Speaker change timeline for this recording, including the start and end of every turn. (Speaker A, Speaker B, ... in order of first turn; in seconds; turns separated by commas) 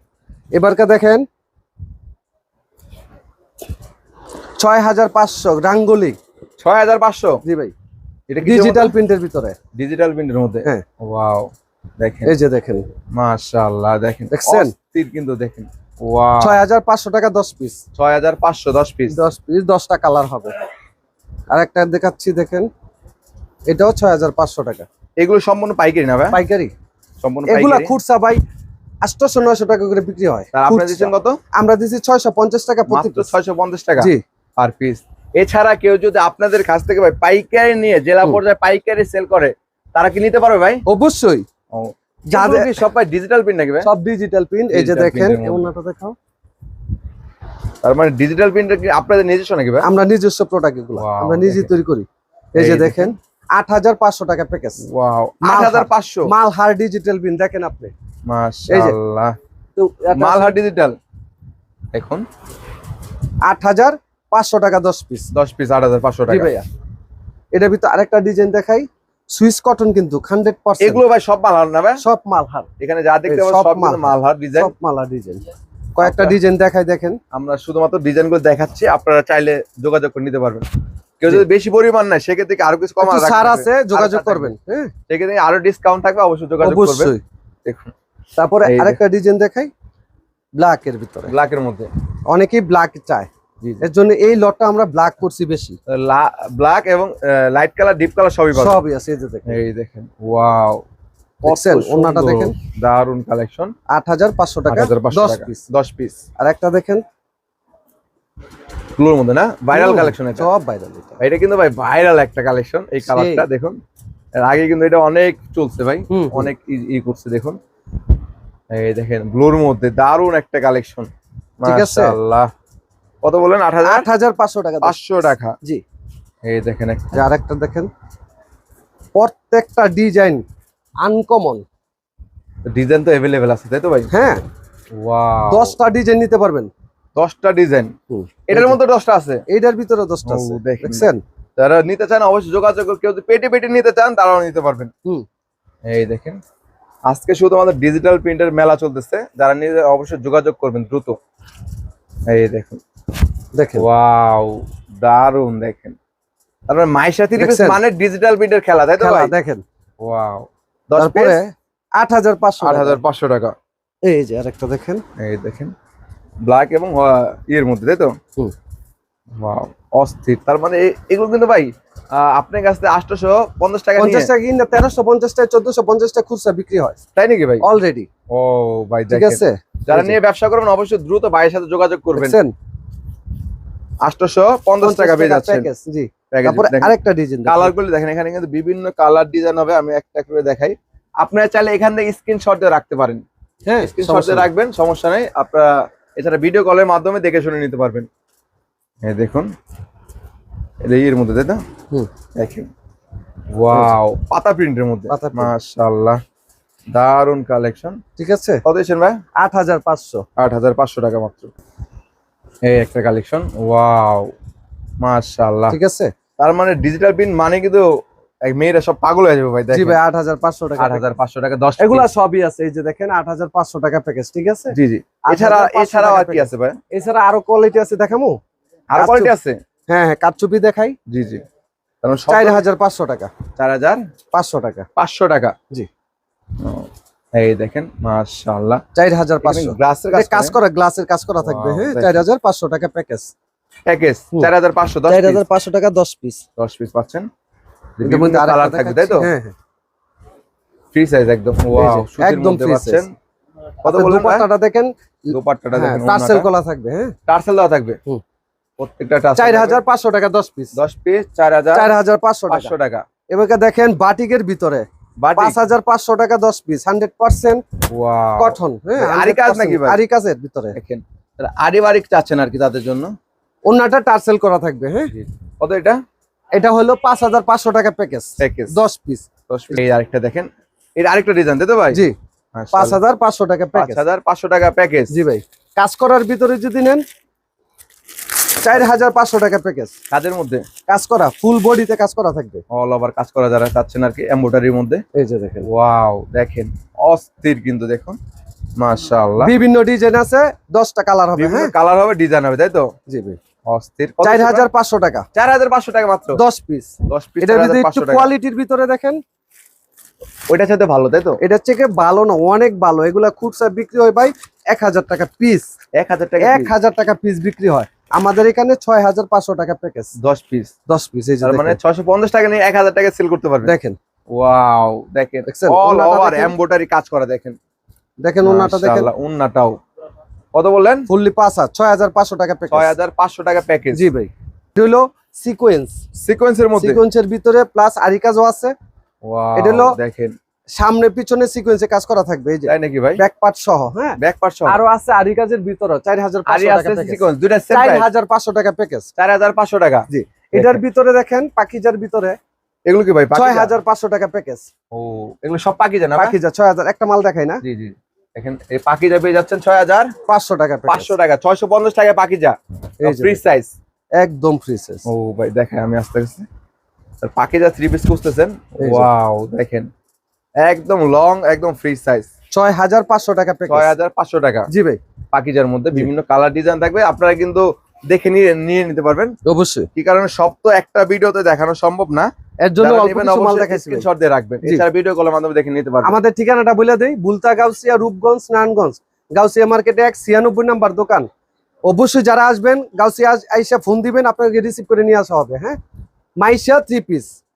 Speaker A: 0.5-1.2, Speaker A: 4.6-6.2, Speaker B: 6.6-7.4, Speaker A: 7.4-7.7, Speaker B: 8.3-8.9, Speaker A: 8.4-9.6, Speaker B: 9.8-12.3, Speaker A: 12.2-12.8, Speaker B: 13.1-16.6, Speaker A: 14.3-14.7, Speaker A: 16.4-17.8, Speaker B: 18.0-19.2, Speaker A: 19.1-20.6, Speaker A: 21.5-22.7, Speaker A: 23.7-24.9, Speaker B: 25.2-26.4, Speaker A: 26.3-26.7, Speaker B: 27.2-27.9, Speaker A: 27.5-28.4, Speaker A: 29.0-33.3, Speaker B: 30.5-31.4, Speaker B: 32.9-40.8, Speaker A: 40.9-41.4, Speaker B: 41.7-43.9, Speaker A: 42.3-42.8, Speaker A: 43.8-46.1, Speaker B: 44.7-45.7, Speaker B: 47.8-49.9, Speaker A: 49.8-54.8, Speaker B: 51.0-51.7, Speaker B: 52.5-53.1, Speaker B: 54.9-56.3, Speaker A: 55.4-57.9, Speaker B: 58.2-59.4, Speaker A: 58.7-59.0, Speaker A: 59.8-60.6, Speaker B: 60.1-61.0, Speaker B: 61.9-62.2, Speaker A: 63.4-65.3, Speaker B: 65.3-66.5, Speaker A: 66.3-66.7, Speaker A: 67.5-71.0, Speaker B: 70.8-72.0, Speaker A: 72.0-72.7, Speaker B: 72.8-74.7, Speaker A: 73.3-75.4, Speaker A: 76.0-77.2, Speaker B: 76.0-76.3, Speaker B: 77.3-80.7, Speaker B: 81.2-84.5, Speaker A: 83.0-84.9, Speaker B: 85.1-87.1, Speaker A: 86.6-87.2, Speaker B: 87.6-87.9, Speaker A: 88.4-89.7, Speaker B: 88.6-89.0, Speaker A: 90.6-91.3, Speaker B: 91.3-91.9, Speaker A: 92.3-93.3, Speaker A: 93.8-95.8, Speaker B: 95.9-98.8, Speaker A: 98.5-99.6, Speaker B: 99.5-100.8, Speaker A: 101.4-102.5, Speaker B: 101.4-103.7, Speaker A: 103.9-105.6, Speaker B: 104.7-106.2, Speaker A: 106.4-107.0, Speaker B: 109.0-110.5, Speaker A: 109.7-111.2, Speaker B: 111.2-113.8, Speaker A: 113.0-113.5, Speaker B: 114.3-117.6, Speaker A: 116.1-116.5, Speaker B: 118.7-122.5, Speaker A: 121.6-122.2, Speaker B: 123.2-124.1, Speaker A: 123.8-125.0, Speaker B: 124.8-125.5, Speaker B: 126.4-127.2, Speaker A: 127.1-127.9, Speaker A: 129.1-130.4, Speaker A: 131.0-131.6, Speaker B: 132.7-134.1, Speaker A: 134.1-134.4, Speaker B: 134.9-135.7, Speaker A: 135.5-136.7, Speaker B: 137.2-137.9, Speaker A: 138.1-138.8, Speaker B: 138.5-139.4, Speaker A: 139.5-141.2, Speaker B: 140.2-144.9, Speaker B: 145.9-146.4, Speaker B: 147.1-151.2, Speaker B: 152.3-152.8, Speaker A: 153.5-153.8, Speaker B: 153.8-156.0, Speaker B: 156.7-159.3, Speaker A: 157.4-157.8, Speaker A: 159.0-159.6, Speaker B: 160.0-161.4, Speaker A: 161.0-163.0, Speaker B: 162.6-163.5, Speaker A: 164.0-165.0, Speaker B: 165.2-165.7, Speaker B: 166.4-168.2, Speaker B: 169.4-174.3, Speaker A: 174.0-177.0, Speaker B: 177.2-177.6, Speaker A: 177.6-178.1, Speaker B: 178.3-182.4, Speaker A: 179.1-180.1, Speaker A: 182.1-182.5, Speaker B: 184.0-185.7, Speaker A: 184.8-187.7, Speaker B: 186.3-186.9, Speaker B: 187.4-193.2, Speaker A: 193.7-194.5, Speaker B: 193.8-198.1, Speaker B: 199.0-199.5, Speaker B: 200.8-201.6, Speaker B: 202.3-202.7, Speaker B: 203.5-206.2, Speaker A: 203.7-203.9, Speaker A: 205.1-205.5, Speaker B: 206.9-208.0, Speaker A: 208.2-208.6, Speaker B: 208.6-209.2, Speaker A: 209.4-210.2, Speaker B: 210.4-211.5, Speaker B: 212.7-214.3, Speaker B: 215.0-215.8, Speaker A: 215.7-216.1, Speaker B: 216.4-217.8, Speaker B: 218.4-220.0, Speaker A: 219.7-221.0, Speaker B: 220.8-222.1, Speaker A: 221.8-228.4, Speaker B: 224.7-226.8, Speaker B: 228.9-229.6, Speaker A: 228.9-229.3, Speaker A: 229.9-230.9, Speaker B: 231.1-231.4, Speaker B: 232.0-232.6, Speaker A: 232.3-233.3, Speaker B: 233.6-234.0, Speaker A: 234.3-234.9, Speaker B: 234.9-235.5, Speaker B: 236.6-238.8, Speaker A: 238.9-243.3, Speaker B: 239.4-240.6, Speaker B: 241.4-242.2, Speaker B: 243.8-245.4, Speaker A: 245.1-246.4, Speaker B: 246.6-247.3, Speaker B: 248.0-249.3, Speaker A: 248.0-249.5, Speaker B: 250.9-253.1, Speaker A: 251.7-253.0, Speaker B: 253.8-254.5, Speaker A: 253.8-257.1, Speaker B: 255.3-256.5, Speaker B: 257.3-258.0, Speaker B: 258.8-259.8, Speaker A: 259.4-260.8, Speaker B: 260.7-261.9, Speaker A: 261.7-262.7, Speaker B: 262.5-263.0, Speaker A: 263.3-264.9, Speaker B: 265.2-265.6, Speaker A: 265.4-267.6, Speaker B: 267.9-270.0, Speaker A: 268.4-270.8, Speaker B: 270.7-273.1, Speaker A: 273.7-275.1, Speaker B: 275.1-276.0, Speaker A: 276.5-279.3, Speaker B: 278.4-278.8, Speaker B: 279.5-282.0, Speaker B: 282.5-283.0, Speaker A: 282.7-284.0, Speaker B: 283.8-285.1, Speaker A: 285.1-287.0, Speaker A: 288.6-289.9, Speaker B: 290.1-290.6, Speaker A: 290.9-292.6, Speaker B: 292.7-295.0, Speaker A: 295.1-295.6, Speaker B: 295.6-298.2, Speaker B: 298.8-299.5, Speaker A: 299.4-301.7, Speaker B: 301.4-302.9, Speaker A: 303.1-303.4, Speaker B: 303.7-304.7, Speaker A: 304.2-305.2, Speaker B: 305.3-306.4, Speaker A: 306.3-309.2, Speaker B: 307.1-308.3, Speaker B: 310.5-311.4, Speaker A: 311.4-315.7, Speaker B: 315.9-316.7, Speaker A: 316.4-320.1, Speaker B: 320.2-320.7, Speaker A: 320.9-321.8, Speaker B: 321.4-323.7, Speaker A: 323.6-324.0, Speaker B: 324.3-327.6, Speaker A: 325.5-326.5, Speaker A: 328.2-329.1, Speaker B: 328.4-329.8, Speaker B: 330.5-331.1, Speaker A: 331.1-332.9, Speaker B: 332.7-334.1, Speaker A: 333.9-336.0, Speaker B: 336.1-337.0, Speaker A: 336.8-338.8, Speaker B: 339.2-340.3, Speaker A: 339.6-340.0, Speaker A: 340.8-349.1, Speaker B: 342.7-343.2, Speaker B: 344.2-344.8, Speaker B: 346.4-348.1, Speaker B: 349.2-350.8, Speaker A: 350.1-352.4, Speaker B: 352.8-353.8, Speaker A: 353.3-354.7, Speaker B: 354.9-356.3, Speaker A: 356.1-357.6, Speaker B: 357.6-360.1, Speaker A: 360.3-361.1, Speaker B: 360.9-363.7, Speaker A: 363.0-363.4, Speaker A: 364.2-365.0, Speaker B: 365.1-366.4, Speaker B: 367.2-369.9, Speaker A: 368.8-369.1, Speaker B: 370.6-372.3, Speaker A: 372.5-373.9, Speaker B: 373.7-374.7, Speaker A: 374.7-375.0, Speaker B: 375.3-379.3, Speaker A: 379.4-379.9, Speaker B: 379.9-386.1, Speaker A: 382.6-384.1, Speaker A: 386.0-391.3, Speaker A: 391.9-395.8, Speaker A: 396.4-397.3